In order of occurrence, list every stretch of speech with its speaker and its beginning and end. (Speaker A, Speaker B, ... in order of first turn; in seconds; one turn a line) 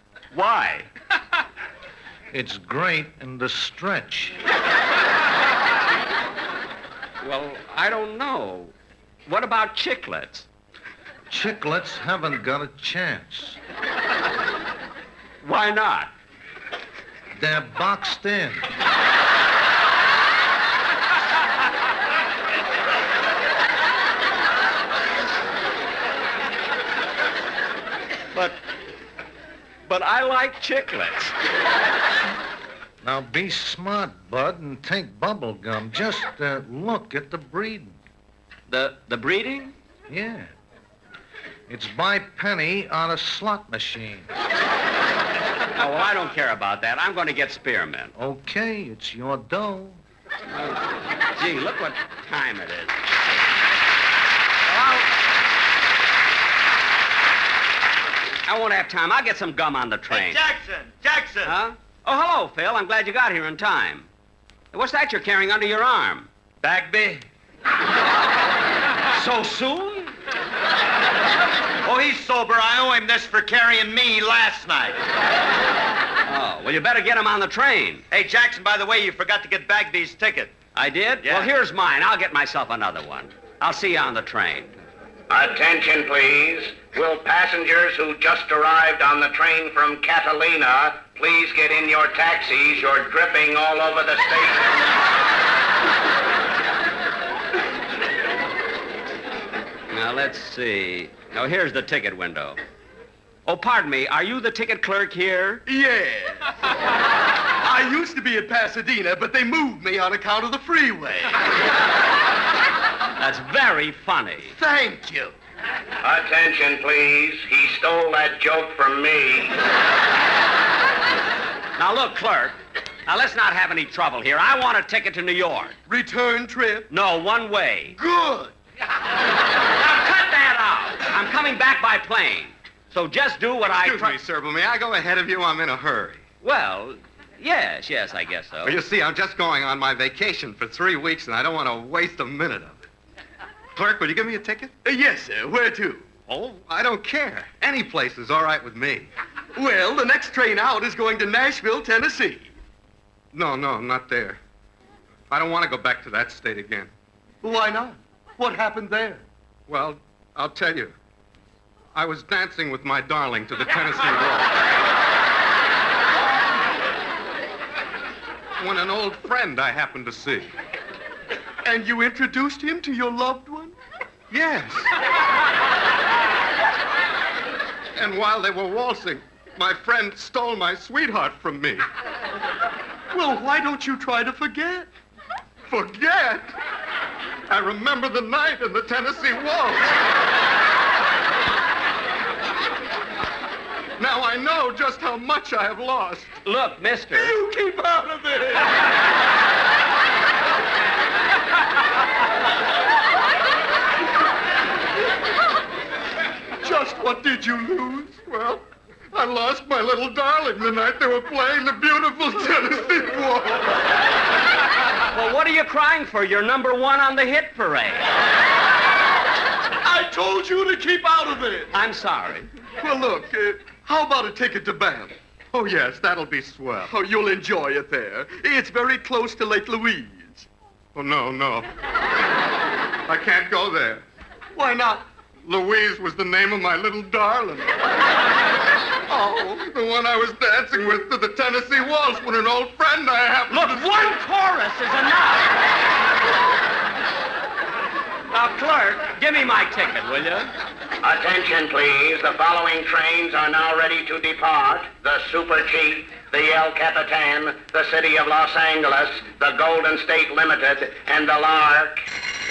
Speaker A: 0.3-0.9
Speaker B: 2.3-4.4
Speaker A: 7.2-8.7
Speaker A: 9.3-10.5
Speaker B: 11.3-13.6
Speaker A: 15.4-16.1
Speaker B: 17.3-18.7
Speaker A: 29.9-31.3
Speaker B: 33.0-38.0
Speaker A: 38.7-39.8
Speaker B: 40.1-40.5
Speaker B: 41.7-44.3
Speaker A: 45.8-48.1
Speaker B: 48.1-50.0
Speaker A: 50.5-53.0
Speaker C: 54.7-55.0
Speaker A: 58.5-60.4
Speaker C: 60.1-61.6
Speaker A: 61.4-64.1
Speaker A: 64.7-66.3
Speaker C: 66.6-67.2
Speaker A: 69.1-70.1
Speaker C: 71.8-75.0
Speaker A: 76.3-78.0
Speaker C: 78.1-80.5
Speaker A: 80.8-84.8
Speaker C: 81.2-81.5
Speaker D: 85.3-94.8
Speaker A: 99.9-102.6
Speaker A: 103.5-105.6
Speaker E: 105.7-106.5
Speaker E: 107.6-111.4
Speaker A: 113.2-114.5
Speaker E: 114.5-115.3
Speaker D: 116.0-119.6
Speaker A: 121.8-122.6
Speaker A: 123.1-125.8
Speaker E: 125.9-126.9
Speaker A: 126.9-128.0
Speaker E: 128.0-128.5
Speaker A: 129.8-134.2
Speaker E: 133.7-136.2
Speaker A: 136.4-138.8
Speaker E: 138.6-142.8
Speaker E: 143.8-152.5
Speaker E: 153.3-154.4
Speaker E: 155.3-156.9
Speaker E: 157.4-160.9
Speaker E: 161.9-164.5
Speaker E: 168.6-170.5
Speaker E: 171.7-173.8
Speaker E: 174.3-174.9
Speaker E: 178.0-181.8
Speaker E: 183.1-184.9
Speaker E: 185.7-186.5
Speaker E: 187.5-189.9
Speaker E: 194.0-196.4
Speaker A: 196.4-197.4
Speaker E: 197.1-198.7
Speaker E: 206.6-213.8
Speaker A: 215.1-218.1
Speaker E: 219.8-221.7
Speaker A: 221.7-222.5
Speaker E: 222.8-231.7
Speaker E: 233.1-237.8
Speaker E: 239.1-244.2
Speaker A: 243.5-245.5
Speaker A: 248.3-250.5
Speaker D: 251.0-262.1